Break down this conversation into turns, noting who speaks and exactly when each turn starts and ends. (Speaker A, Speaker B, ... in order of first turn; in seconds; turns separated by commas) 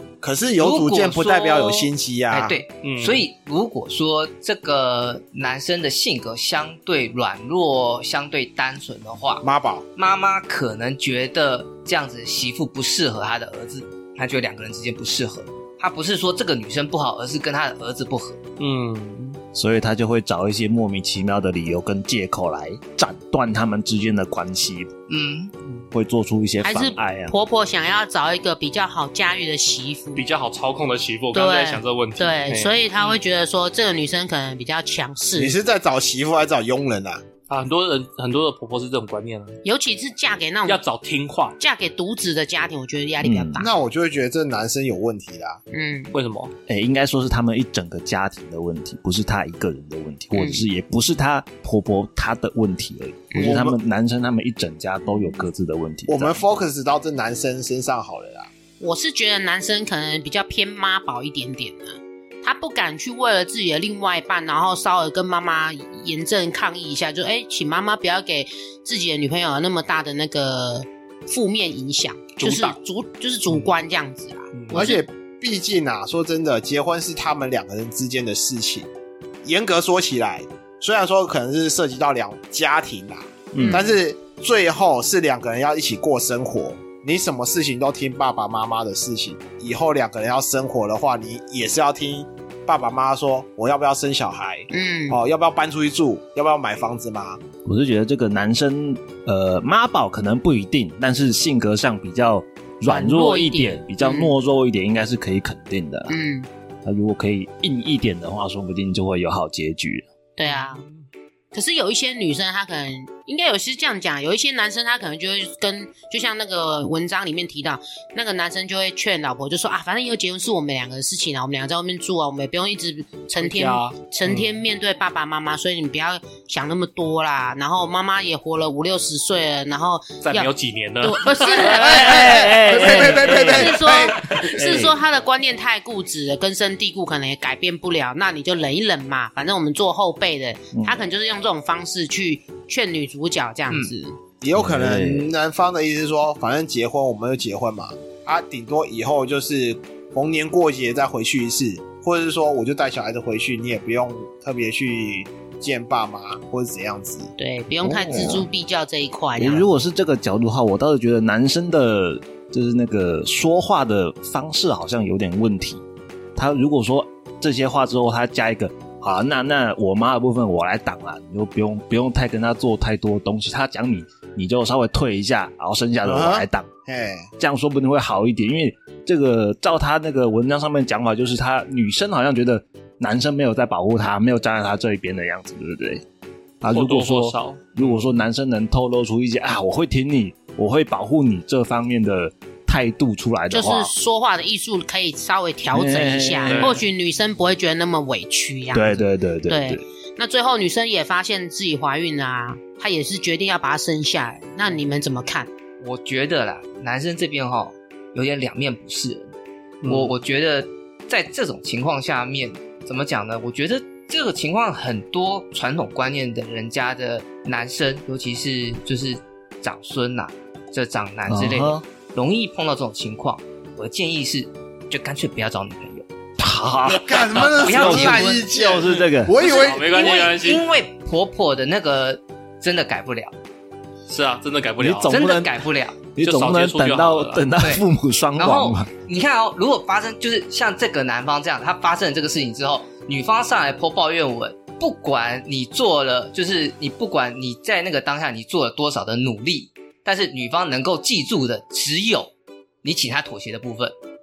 Speaker A: 0.2-2.6, Speaker B: 0.6-9.4, Speaker C: 2.8-3.3, Speaker A: 9.4-9.9, Speaker B: 10.0-18.4, Speaker C: 18.6-19.4, Speaker D: 19.5-24.9, Speaker B: 25.1-25.5, Speaker D: 25.9-27.3, Speaker E: 26.6-30.2, Speaker C: 30.2-33.1, Speaker E: 31.3-35.6, Speaker A: 35.4-37.2, Speaker C: 37.5-39.6, Speaker E: 39.6-40.8, Speaker C: 40.7-41.6, Speaker E: 41.6-43.7, Speaker D: 43.2-43.7, Speaker A: 43.6-45.6, Speaker E: 45.7-46.1, Speaker C: 46.1-46.5, Speaker D: 46.7-56.4, Speaker E: 50.4-50.6, Speaker E: 53.3-53.6, Speaker A: 53.4-53.8, Speaker A: 56.1-58.5, Speaker E: 58.8-75.0, Speaker C: 72.4-72.8, Speaker C: 74.5-75.0, Speaker A: 74.7-78.9, Speaker A: 79.4-97.4, Speaker D: 83.5-83.8, Speaker E: 83.6-83.9, Speaker E: 94.7-95.2, Speaker D: 97.7-106.2, Speaker E: 102.9-104.3, Speaker E: 106.1-106.5, Speaker D: 106.8-110.0, Speaker E: 110.4-110.9, Speaker C: 110.5-111.0, Speaker E: 111.5-144.2, Speaker C: 123.4-124.5, Speaker C: 130.2-131.9, Speaker D: 131.6-135.0, Speaker A: 131.7-134.3, Speaker D: 140.7-141.0, Speaker A: 144.4-157.3, Speaker D: 144.5-145.3, Speaker E: 157.4-159.7, Speaker D: 157.8-158.5, Speaker D: 159.4-165.8, Speaker D: 166.4-176.7, Speaker A: 176.1-177.3, Speaker D: 177.4-186.0, Speaker D: 186.6-193.9, Speaker C: 186.7-188.1, Speaker E: 193.5-205.5, Speaker D: 195.7-196.8, Speaker C: 196.5-196.8, Speaker D: 198.7-199.8, Speaker B: 205.8-209.3, Speaker C: 209.8-210.1, Speaker B: 209.8-226.1, Speaker D: 221.3-221.8, Speaker D: 226.4-229.3, Speaker A: 226.9-230.2, Speaker B: 227.3-228.5, Speaker C: 229.4-230.7, Speaker B: 229.4-233.3, Speaker C: 234.1-235.2, Speaker D: 234.8-238.9, Speaker B: 235.1-236.1, Speaker C: 236.2-237.5, Speaker B: 237.6-237.8, Speaker B: 238.4-252.3, Speaker B: 252.8-253.9